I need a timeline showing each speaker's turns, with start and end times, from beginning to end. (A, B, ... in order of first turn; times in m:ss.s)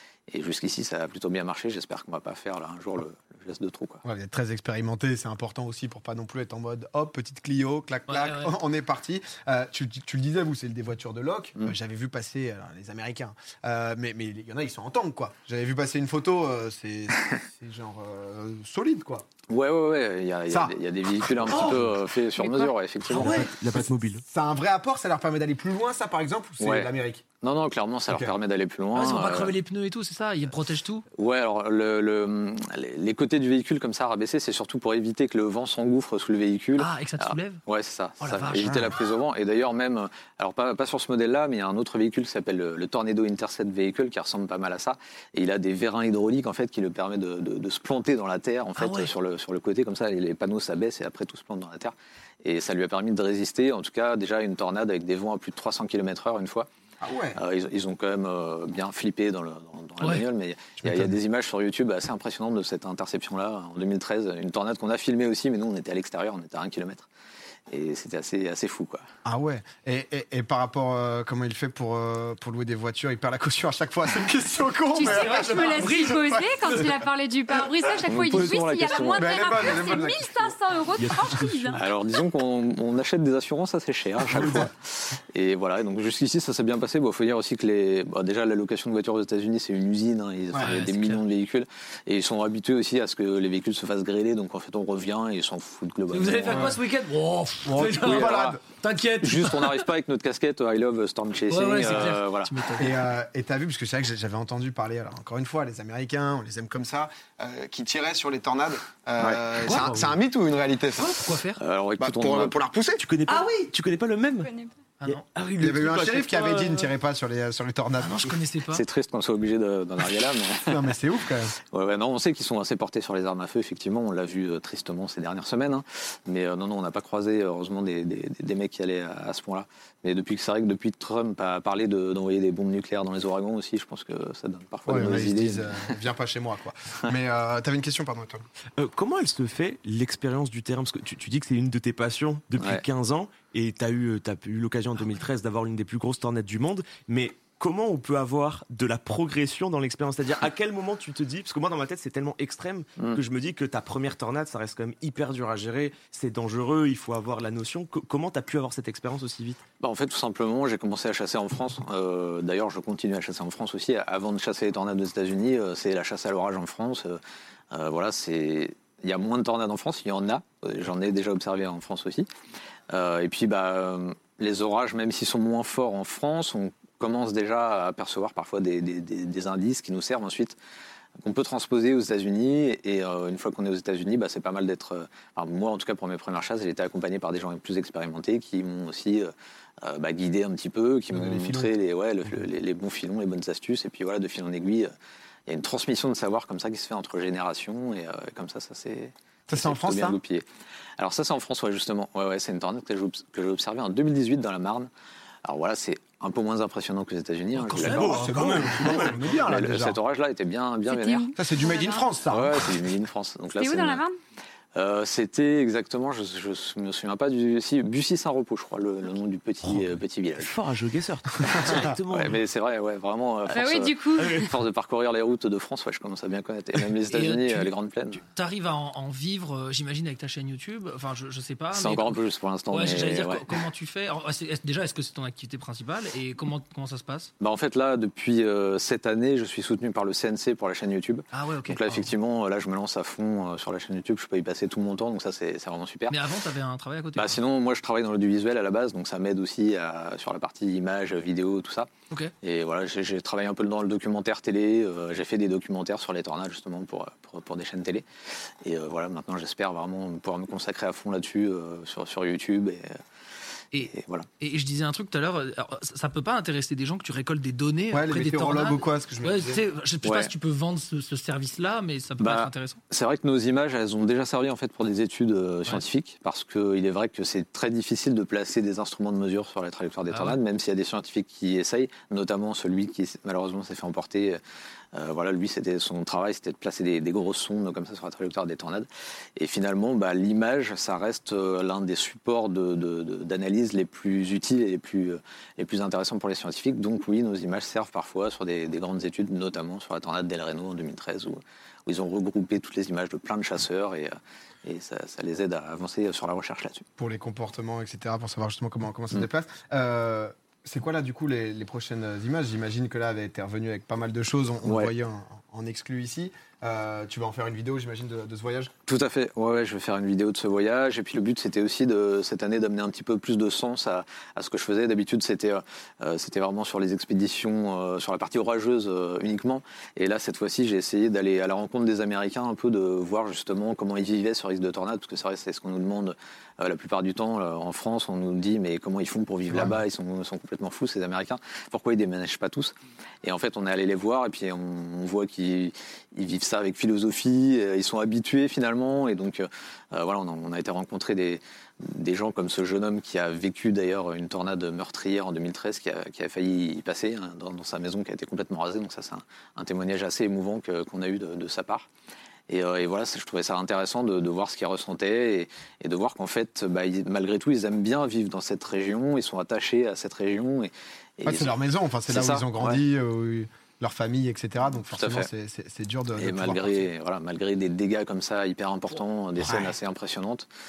0:00.3-0:04.0 A
0:04.0-0:19.2 B
0:08.1-0:08.5 C
0:19.5-0:23.3 A
0:20.5-0:21.8 B
0:21.5-0:21.9 D
0:23.1-0:24.2 D
0:23.1-0:27.2 B
0:23.2-0:23.5 C
0:26.6-0:29.5 A
0:28.1-0:28.4 B
0:28.9-0:31.0 C
0:31.2-0:56.7 A
0:36.8-0:37.6 C
0:38.2-0:38.9 C
0:38.6-0:38.9 B
0:48.8-0:49.1 C
0:57.0-0:57.4 B
0:57.4-1:07.1 A
1:00.8-1:01.2 B
1:07.7-1:09.0 A
1:09.2-1:17.0 B
1:14.9-1:21.8 E
1:15.0-1:16.1 C
1:18.0-1:19.3 A
1:19.1-1:20.6 B
1:21.0-1:21.8 D
1:21.8-1:36.7 A
1:24.4-1:24.6 B
1:30.6-1:31.2 C
1:36.1-1:39.9 C
1:36.4-1:36.8 B
1:37.6-1:38.6 B
1:38.0-1:38.6 A
1:39.2-1:42.5 A
1:41.5-1:43.0 C
1:42.8-1:51.3 B
1:49.2-1:49.5 A
1:49.6-1:50.1 C
1:51.0-1:51.6 C
1:51.6-1:52.6 A
1:52.0-1:53.1 B
1:53.0-1:56.9 D
1:55.0-1:55.2 C
1:55.6-1:58.4 B
1:58.0-1:58.8 C
1:58.7-2:00.9 A
2:00.6-2:01.5 B
2:01.7-2:15.9 A
2:14.8-2:18.4 B
2:18.8-2:39.6 D
2:22.6-2:22.8 A
2:39.8-2:47.2 A
2:47.7-2:52.3 A
2:52.9-3:00.6 A
3:01.2-3:09.3 A
3:09.8-3:14.9 A
3:11.1-3:11.7 B
3:15.5-3:20.4 A
3:19.5-3:20.2 B
3:21.0-3:24.9 A
3:25.4-3:28.2 A
3:27.7-3:29.1 C
3:27.7-3:30.0 B
3:27.7-3:29.1 D
3:28.9-3:31.3 A
3:30.8-3:32.0 E
3:31.4-3:32.9 B
3:32.3-3:34.0 A
3:33.5-3:34.1 E
3:34.7-3:40.5 A
3:39.6-3:42.4 D
3:41.4-3:41.9 B
3:41.5-3:48.2 A
3:43.5-3:44.5 E
3:47.1-3:57.3 C
3:51.7-3:53.6 A
3:57.4-4:06.2 A
4:01.3-4:02.1 C
4:06.1-4:07.4 C
4:07.2-4:11.9 A
4:12.4-4:18.0 A
4:18.6-4:22.9 A
4:23.7-4:32.8 C
4:23.9-4:24.2 A
4:27.9-4:29.6 B
4:30.0-4:30.3 A
4:32.2-4:44.4 A
4:40.1-4:40.4 C
4:44.9-5:04.1 A
5:04.6-5:06.8 A
5:07.0-5:18.7 B
5:14.6-5:14.9 A
5:18.9-6:01.9 A
5:39.5-5:39.8 B
6:02.5-6:11.6 A
6:11.2-6:16.9 B
6:12.1-6:12.8 A
6:14.8-6:15.3 A
6:16.1-6:20.5 A
6:19.4-6:19.8 B